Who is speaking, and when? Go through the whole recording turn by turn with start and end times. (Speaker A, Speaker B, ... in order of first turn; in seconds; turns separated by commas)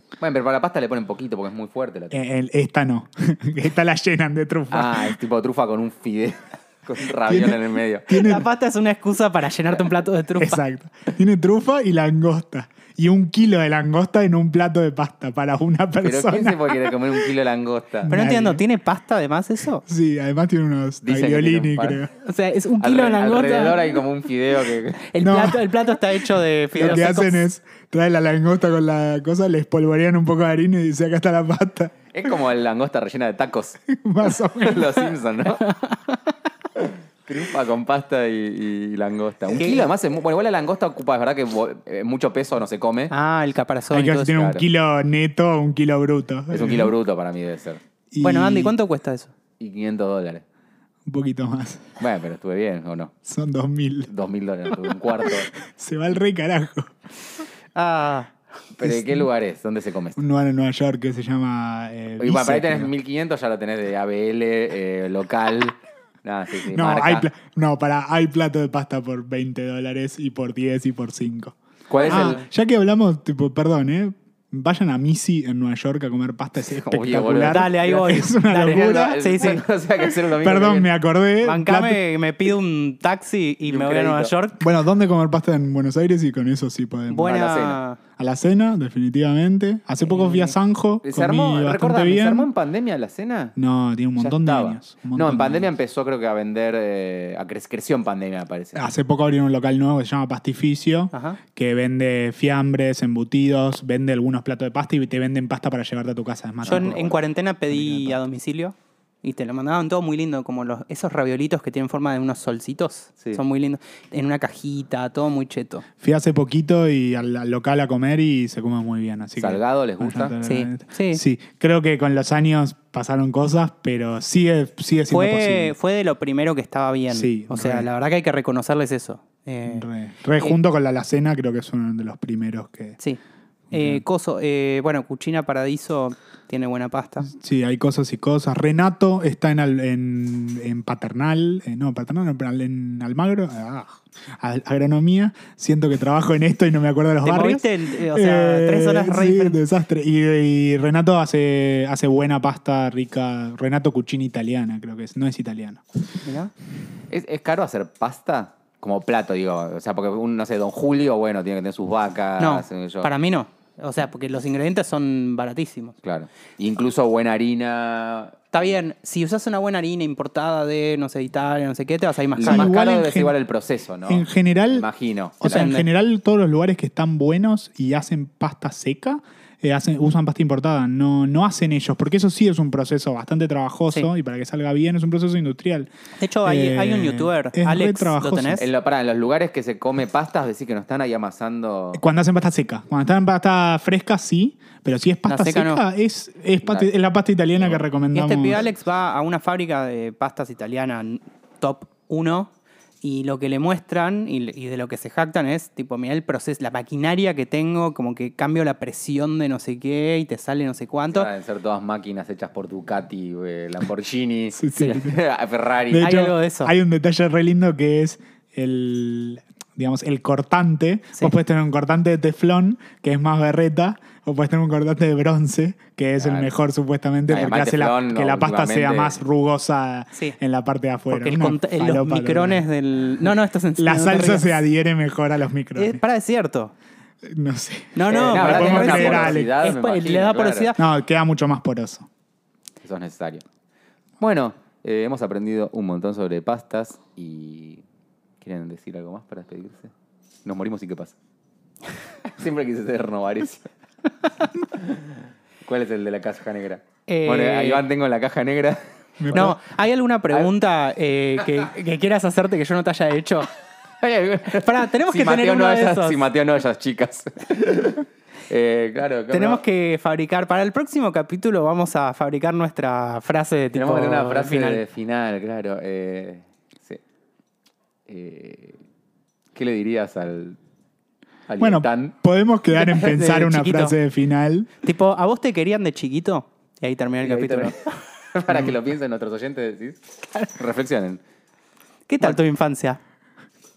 Speaker A: 0.2-2.2, Speaker B: 2.1-5.2, Speaker A: 4.7-8.1, Speaker B: 7.3-8.5, Speaker C: 8.1-10.6, Speaker B: 10.4-17.1, Speaker A: 16.0-18.1, Speaker C: 18.1-19.8, Speaker B: 18.1-18.6, Speaker B: 19.9-22.1, Speaker A: 21.0-22.0, Speaker C: 22.2-24.0, Speaker A: 22.8-25.0, Speaker C: 25.0-27.4, Speaker B: 25.2-31.9, Speaker A: 32.1-35.6, Speaker B: 33.9-35.1, Speaker C: 35.6-36.0, Speaker A: 36.8-43.1, Speaker C: 39.5-39.9, Speaker C: 43.1-44.4, Speaker B: 43.9-46.9, Speaker A: 44.2-44.6, Speaker A: 46.5-47.8, Speaker B: 48.1-48.7, Speaker C: 48.2-49.3, Speaker A: 49.6-50.4, Speaker B: 51.0-51.9, Speaker A: 52.0-53.1, Speaker B: 53.2-54.1, Speaker A: 54.1-55.5, Speaker B: 54.7-56.9, Speaker C: 57.7-58.3, Speaker A: 58.7-60.2, Speaker B: 58.8-59.2, Speaker B: 60.1-62.9, Speaker A: 62.2-67.3, Speaker B: 66.7-79.2, Speaker A: 71.9-72.5, Speaker A: 76.6-80.9, Speaker C: 77.3-79.6, Speaker B: 80.3-82.0, Speaker C: 81.4-84.6, Speaker A: 83.7-84.3, Speaker B: 84.6-87.4, Speaker C: 87.1-88.0, Speaker A: 87.2-87.8, Speaker B: 88.2-92.5, Speaker C: 90.0-90.6, Speaker A: 91.0-93.5, Speaker B: 93.5-95.7, Speaker A: 94.2-98.8, Speaker B: 98.8-107.2, Speaker C: 101.1-101.4, Speaker A: 106.6-107.1, Speaker C: 106.7-115.8, Speaker B: 107.7-108.2, Speaker B: 116.0-125.7, Speaker A: 119.4-120.3, Speaker C: 120.4-121.2, Speaker C: 125.1-129.8, Speaker B: 127.1-127.9, Speaker B: 129.7-133.0, Speaker B: 133.7-134.0, Speaker C: 133.7-137.3, Speaker B: 137.3-155.8, Speaker C: 147.2-149.6, Speaker C: 156.2-156.5, Speaker A: 157.1-163.1, Speaker C: 162.4-165.9, Speaker A: 166.0-168.4, Speaker C: 168.5-172.7, Speaker A: 172.3-175.7, Speaker B: 172.4-173.3, Speaker B: 174.1-174.9, Speaker B: 175.4-185.9, Speaker C: 175.4-175.9, Speaker C: 186.2-188.6, Speaker B: 186.4-188.6, Speaker A: 188.6-192.0, Speaker B: 191.9-198.6, Speaker C: 195.3-195.8, Speaker A: 196.6-196.9, Speaker C: 198.1-202.5, Speaker C: 203.0-211.3, Speaker A: 211.1-216.1, Speaker B: 214.6-215.2, Speaker B: 215.9-232.6, Speaker C: 216.0-216.7, Speaker A: 226.2-226.5, Speaker A: 227.3-229.2, Speaker C: 231.1-234.6, Speaker B: 233.8-236.0, Speaker C: 235.8-236.7, Speaker B: 237.2-239.5, Speaker C: 237.9-240.8, Speaker A: 238.1-240.7, Speaker B: 240.8-242.1, Speaker A: 242.8-243.4, Speaker A: 244.2-247.8, Speaker A: 248.4-249.9, Speaker A: 250.4-251.1, Speaker A: 252.4-253.7, Speaker A: 254.6-259.5, Speaker C: 257.1-257.8, Speaker B: 259.2-259.6, Speaker C: 259.3-263.5, Speaker A: 264.0-269.6, Speaker C: 264.5-266.2, Speaker C: 269.3-274.8, Speaker A: 273.7-277.0, Speaker A: 278.1-278.8, Speaker A: 279.5-280.6, Speaker A: 281.5-282.1, Speaker B: 281.6-284.7, Speaker C: 282.7-283.9, Speaker C: 284.8-287.9, Speaker A: 287.2-287.8, Speaker A: 288.3-291.2, Speaker C: 292.1-293.0